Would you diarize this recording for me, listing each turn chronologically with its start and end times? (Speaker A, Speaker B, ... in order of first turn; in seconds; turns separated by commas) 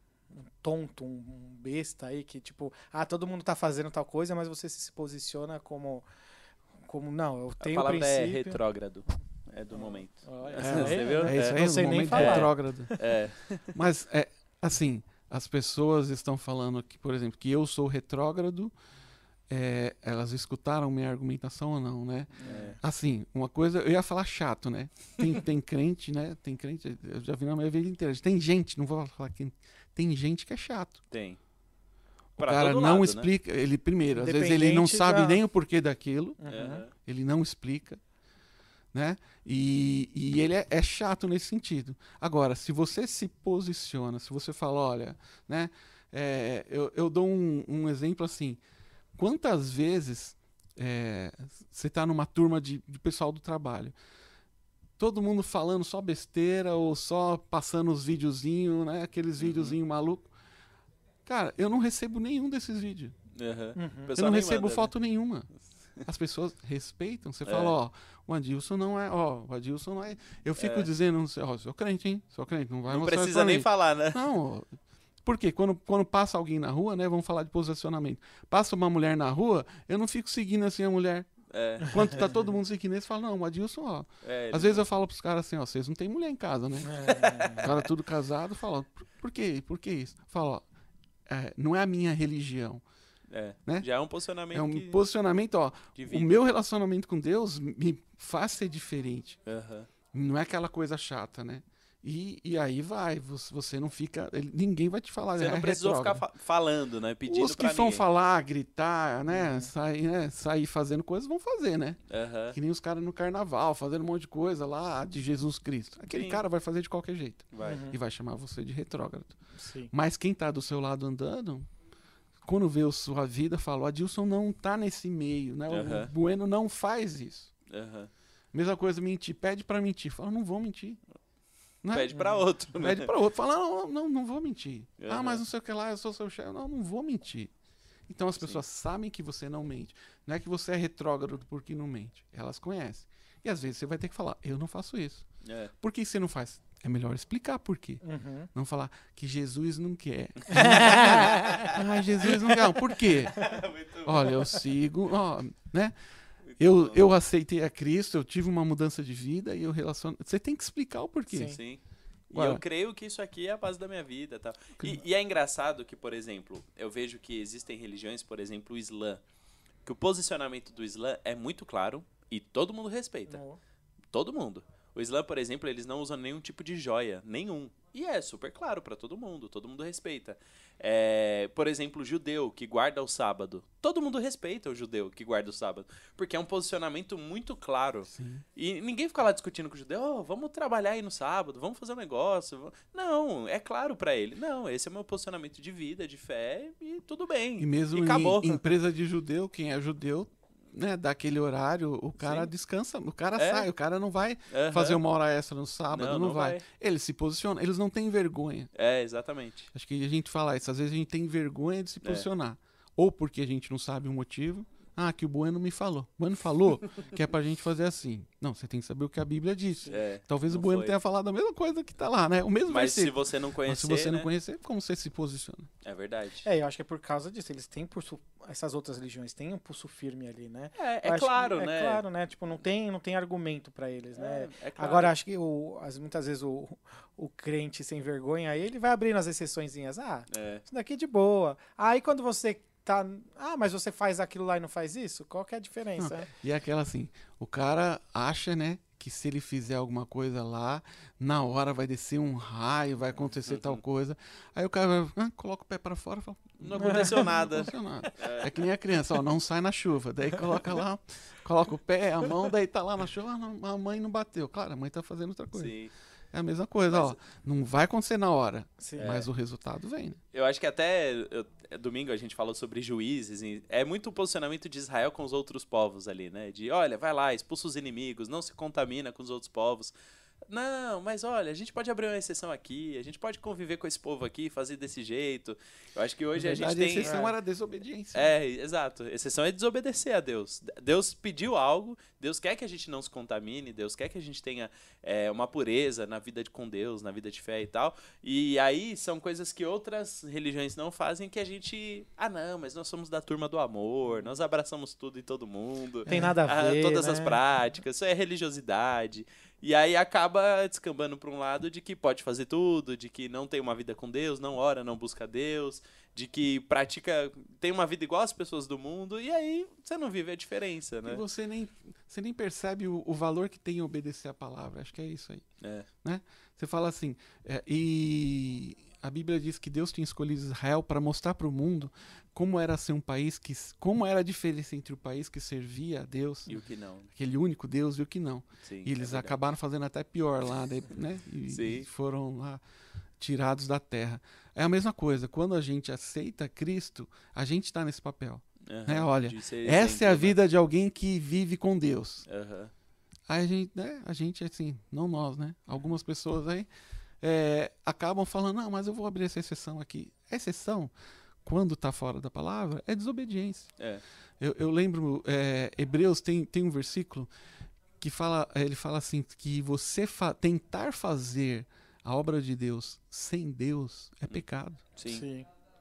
Speaker A: 0.3-6.0, Speaker A: 6.9-8.6, Speaker B: 7.6-13.7, Speaker A: 9.7-13.0, Speaker C: 10.6-12.9, Speaker C: 13.7-18.7, Speaker C: 19.5-31.0, Speaker B: 22.4-22.8, Speaker A: 22.4-22.8, Speaker B: 31.1-31.4, Speaker B: 32.4-33.3, Speaker C: 32.4-38.0, Speaker A: 34.1-35.4, Speaker A: 36.4-36.8, Speaker B: 36.5-36.9, Speaker C: 38.9-48.6, Speaker C: 49.1-53.9, Speaker C: 55.0-60.3, Speaker B: 59.4-59.8, Speaker C: 61.2-63.1, Speaker B: 63.4-64.9, Speaker A: 63.8-64.1, Speaker C: 64.2-81.3, Speaker B: 67.4-67.7, Speaker B: 70.6-70.9, Speaker B: 72.9-74.2, Speaker B: 81.5-82.3, Speaker C: 81.8-90.6, Speaker B: 84.2-84.8, Speaker A: 86.9-87.6, Speaker B: 87.1-87.7, Speaker C: 91.3-92.8, Speaker B: 93.3-95.0, Speaker C: 94.5-99.4, Speaker B: 96.0-96.4, Speaker B: 99.5-99.9, Speaker C: 100.1-106.2, Speaker B: 105.4-108.0, Speaker C: 107.2-112.0, Speaker A: 109.3-109.7, Speaker B: 112.1-112.5, Speaker C: 112.5-119.4, Speaker B: 116.1-116.4, Speaker B: 117.5-117.8, Speaker A: 117.6-118.0, Speaker A: 119.6-119.9, Speaker C: 119.9-121.7, Speaker C: 122.4-127.5, Speaker B: 125.7-126.1, Speaker B: 127.7-128.1, Speaker C: 128.5-131.0, Speaker C: 131.8-132.1, Speaker B: 131.9-133.1, Speaker A: 132.1-132.4, Speaker C: 132.7-137.5, Speaker B: 135.0-135.4, Speaker C: 138.1-145.3, Speaker B: 145.4-145.7, Speaker C: 145.8-148.0, Speaker A: 148.0-148.5, Speaker C: 148.5-155.9, Speaker B: 150.4-151.8, Speaker A: 150.5-152.5, Speaker B: 153.0-154.3, Speaker B: 156.4-157.1, Speaker C: 156.6-161.6, Speaker A: 161.3-161.6, Speaker B: 161.5-161.8, Speaker B: 162.3-169.2, Speaker C: 162.3-162.6, Speaker B: 169.8-173.4, Speaker A: 173.3-173.6, Speaker B: 174.1-198.6, Speaker C: 188.1-188.4, Speaker C: 197.6-208.7, Speaker B: 202.2-202.5, Speaker B: 203.4-203.7, Speaker B: 204.5-205.0, Speaker B: 205.9-206.6, Speaker B: 208.7-209.7, Speaker C: 209.7-225.7, Speaker B: 219.9-220.9, Speaker B: 222.7-224.3, Speaker B: 225.8-226.5, Speaker A: 226.4-246.3, Speaker B: 230.8-232.0, Speaker B: 234.1-235.1, Speaker B: 240.3-240.6, Speaker C: 246.0-265.7, Speaker B: 253.5-253.8, Speaker B: 256.6-258.6, Speaker A: 256.8-257.1, Speaker B: 265.5-265.9, Speaker C: 266.3-270.2, Speaker A: 268.8-269.1, Speaker B: 269.0-269.3, Speaker B: 270.3-279.9, Speaker B: 280.5-287.2, Speaker C: 286.4-288.3, Speaker A: 287.0-287.3, Speaker B: 288.1-321.2, Speaker A: 306.1-307.4, Speaker C: 321.0-325.4, Speaker B: 325.6-325.9, Speaker C: 326.0-336.6, Speaker B: 336.5-337.1, Speaker C: 337.1-342.6, Speaker B: 338.6-339.4, Speaker B: 341.5-341.9, Speaker C: 343.2-352.2, Speaker B: 348.6-350.4, Speaker B: 352.3-352.7, Speaker C: 353.3-356.7, Speaker C: 357.2-360.9, Speaker C: 361.4-363.7, Speaker C: 364.4-367.3, Speaker C: 368.0-374.8, Speaker B: 374.9-375.2, Speaker A: 375.1-375.5